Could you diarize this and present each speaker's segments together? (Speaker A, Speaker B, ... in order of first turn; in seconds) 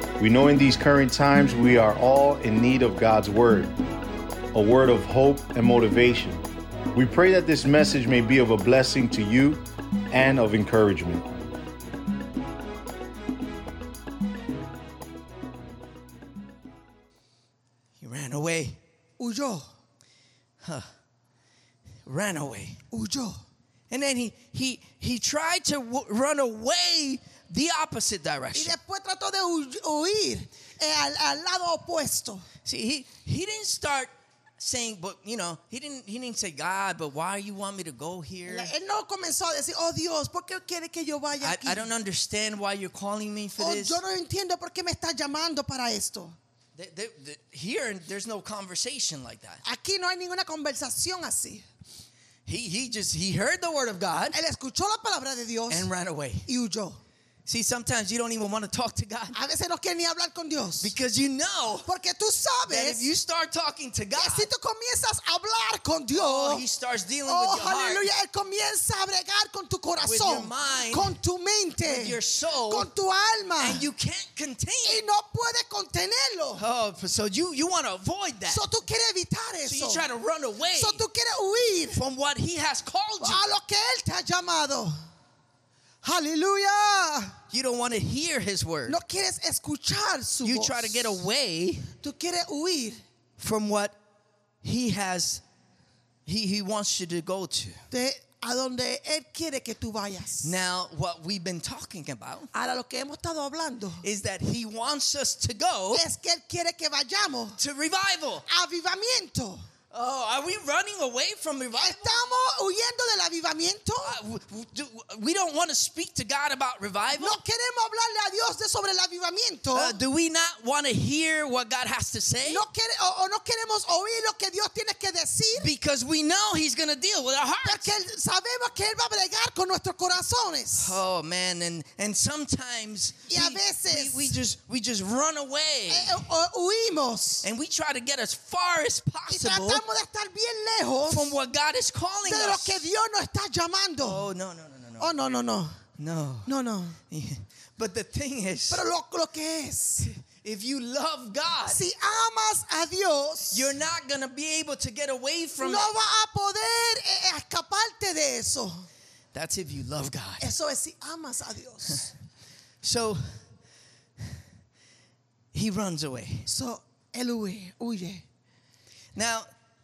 Speaker A: 0.2-3.7, 4.5-6.4, 6.9-11.2
Speaker B: 18.0-18.8, 20.6-20.9, 22.1-22.8, 23.9-28.7, 32.6-38.7, 41.4-44.0, 46.8-49.6, 52.5-54.4, 55.7-56.5, 57.5-59.3, 60.8-61.9, 62.7-64.5, 66.1-68.0, 70.0-71.1, 71.8-72.9, 73.6-75.0, 76.6-78.6, 79.6-81.0, 81.9-83.5, 87.5-89.0, 90.4-91.9, 93.4-94.0, 94.6-95.4, 96.2-97.8, 100.4-102.5, 104.0-106.0, 107.6-108.5, 109.9-112.2, 114.0-117.4, 119.7-122.6, 125.5-127.9, 130.8-136.2, 137.4-139.8, 141.1-142.8, 144.0-145.1, 146.0-146.5, 147.1-148.8, 150.0-151.8, 153.5-155.9, 159.3-160.4, 162.8-163.4, 165.5-166.5, 169.1-169.5
Speaker C: 19.2-19.7, 22.9-23.4, 28.5-32.5, 38.4-41.9, 43.6-46.4, 49.6-51.6, 54.3-55.9, 56.4-57.0, 59.3-60.9, 61.8-63.1, 64.1-66.6, 67.2-73.9, 74.8-76.6, 78.5-80.1, 80.7-82.0, 83.2-84.9, 86.0-87.3, 88.8-91.2, 92.0-93.0, 97.9-100.6, 102.5-104.0, 105.9-107.6, 108.5-109.7, 111.7-114.2, 117.2-120.0, 122.4-125.7, 127.6-131.0, 133.3-134.3, 135.9-137.5, 139.3-141.4, 142.2-144.3, 145.0-145.8, 146.4-147.0, 148.7-150.1, 151.7-153.7, 155.6-158.8, 160.4-162.1, 166.4-168.2